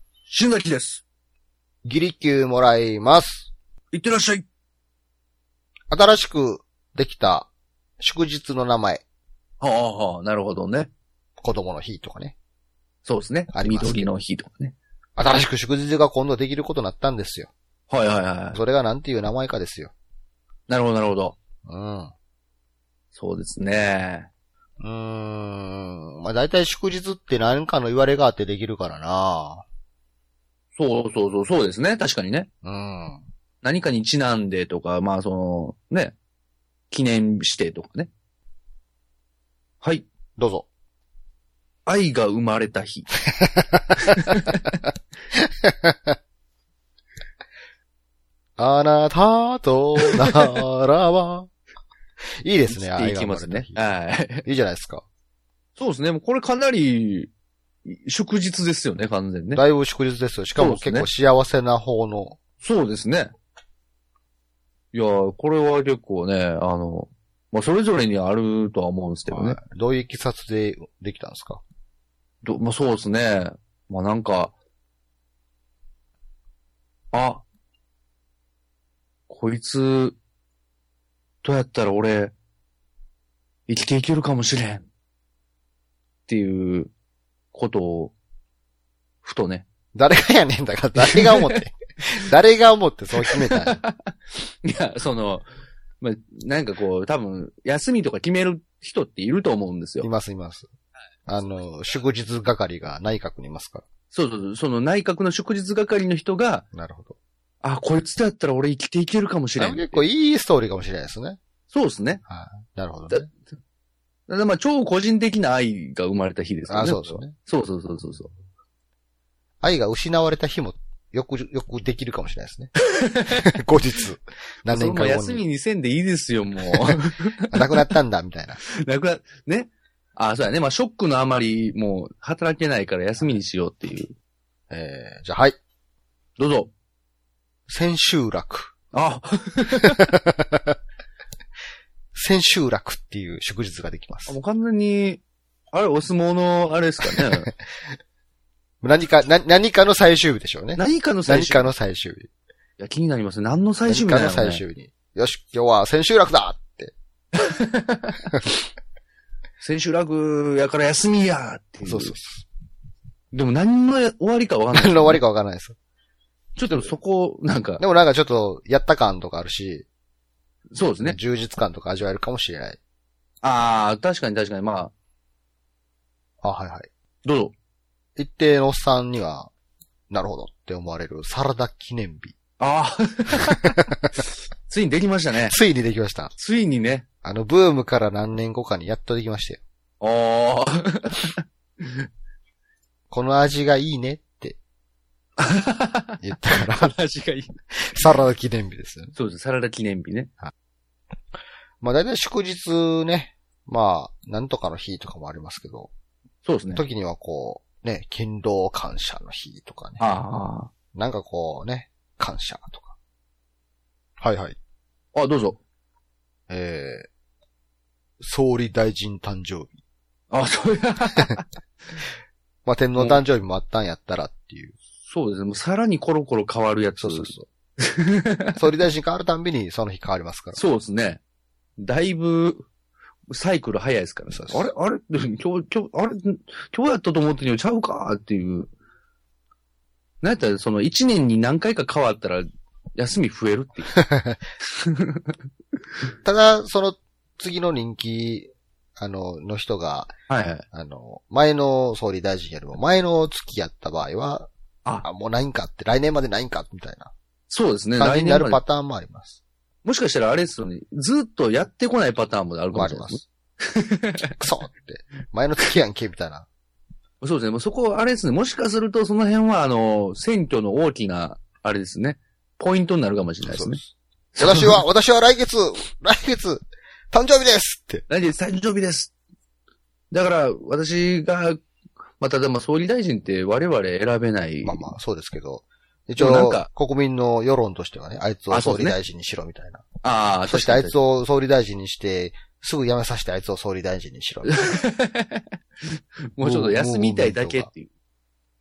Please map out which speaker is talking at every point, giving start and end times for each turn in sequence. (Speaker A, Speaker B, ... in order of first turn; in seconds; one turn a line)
Speaker A: 0.3-1.0
Speaker B: 1.8-3.5
Speaker A: 3.9-4.5
Speaker B: 5.9-7.5
Speaker B: 8.0-9.0
Speaker A: 9.6-10.9
Speaker B: 11.4-12.3
Speaker A: 13.0-14.8
Speaker B: 13.5-14.1
Speaker B: 15.2-17.5
Speaker A: 17.9-18.6
Speaker B: 18.5-19.9
Speaker A: 20.7-21.4
Speaker B: 21.7-22.1
Speaker A: 23.1-24.3
Speaker B: 24.8-29.6
Speaker A: 30.8-32.5
Speaker B: 32.6-33.2
Speaker A: 33.6-36.2
Speaker A: 36.9-38.1
Speaker A: 39.8-40.1
Speaker B: 40.4-40.7
Speaker A: 41.9-43.2
Speaker B: 43.4-44.0
Speaker A: 44.2-44.8
Speaker B: 45.4-46.1
Speaker B: 48.6-51.5
Speaker B: 52.4-53.9
Speaker A: 52.7-54.5
Speaker B: 54.5-55.0
Speaker A: 55.8-57.3
Speaker A: 57.9-59.6
Speaker B: 59.5-62.4
Speaker A: 60.6-61.1
Speaker A: 62.6-63.3
Speaker A: 64.9-69.6
Speaker B: 69.3-71.6
Speaker A: 72.4-74.5
Speaker A: 77.1-77.5
Speaker A: 79.3-80.2
Speaker A: 81.4-82.3
Speaker A: 83.7-84.9
Speaker A: 86.3-86.9
Speaker A: 87.5-88.1
Speaker A: 89.2-89.7
Speaker B: 89.9-93.8
Speaker A: 91.0-91.6
Speaker A: 93.2-95.5
Speaker A: 96.0-100.1
Speaker B: 100.0-100.7
Speaker B: 101.3-103.8
Speaker A: 104.1-106.7
Speaker B: 106.7-107.2
Speaker A: 107.6-110.0
Speaker B: 109.6-111.4
Speaker A: 111.7-112.2
Speaker B: 112.3-113.3
Speaker A: 114.3-118.3
Speaker B: 116.7-117.3
Speaker B: 119.6-122.7
Speaker A: 123.0-123.4
Speaker B: 123.3-125.4
Speaker A: 124.7-127.6
Speaker B: 127.5-128.6
Speaker A: 128.7-134.1
Speaker B: 134.7-135.6
Speaker A: 136.4-136.7
Speaker B: 137.7-138.7
Speaker A: 138.9-140.1
Speaker B: 140.0-140.8
Speaker B: 142.2-144.4
Speaker A: 144.3-145.2
Speaker A: 145.7-147.5
Speaker B: 147.1-147.5
Speaker B: 148.8-152.3
Speaker A: 150.8-151.7
Speaker A: 152.8-154.6
Speaker B: 153.9-156.9
Speaker A: 157.3-158.3
Speaker A: 159.6-162.2
Speaker B: 161.8-162.4
Speaker A: 163.3-165.2
Speaker B: 164.7-165.8
Speaker A: 166.6-167.8
Speaker B: 167.8-169.9
Speaker A: 170.7-171.2
Speaker B: 171.0-172.8
Speaker A: 173.4-174.9
Speaker B: 176.4-176.9
Speaker A: 177.2-177.5
Speaker B: 178.2-179.5
Speaker B: 180.1-182.4
Speaker A: 182.6-183.8
Speaker B: 183.7-184.0
Speaker A: 184.7-185.6
Speaker B: 185.5-186.3
Speaker A: 186.4-187.1
Speaker B: 187.2-189.6
Speaker A: 190.0-192.1
Speaker B: 193.1-194.6
Speaker A: 195.4-197.5
Speaker B: 196.2-197.0
Speaker B: 197.8-199.2
Speaker A: 199.2-200.3
Speaker B: 201.8-205.9
Speaker A: 206.4-206.8
Speaker B: 206.7-210.0
Speaker A: 210.0-210.7
Speaker B: 210.9-212.9
Speaker B: 214.2-214.6
Speaker A: 215.1-215.6
Speaker B: 216.5-217.1
Speaker B: 218.2-219.8
Speaker A: 220.3-221.5
Speaker B: 222.7-224.8
Speaker A: 223.0-223.2
Speaker A: 225.1-228.6
Speaker B: 227.0-227.5
Speaker B: 228.6-230.6
Speaker A: 230.6-231.2
Speaker A: 231.8-232.7
Speaker A: 233.3-238.7
Speaker B: 234.3-234.7
Speaker A: 240.2-243.9
Speaker B: 243.9-244.4
Speaker A: 244.8-245.3
Speaker B: 246.2-250.1
Speaker A: 250.3-250.6
Speaker B: 250.7-254.5
Speaker B: 255.0-257.1
Speaker A: 257.5-258.6
Speaker B: 258.0-259.4
Speaker A: 259.8-264.4
Speaker B: 262.7-263.2
Speaker B: 264.4-266.5
Speaker A: 267.2-273.8
Speaker B: 273.4-273.9
Speaker A: 274.4-274.8
Speaker B: 274.4-278.1
Speaker A: 278.1-279.1
Speaker A: 280.1-281.6
Speaker A: 282.2-284.9
Speaker B: 284.6-289.8
Speaker A: 286.2-286.7
Speaker A: 288.5-289.0
Speaker A: 290.0-290.9
Speaker B: 290.5-294.6
Speaker A: 294.4-297.9
Speaker B: 296.4-297.7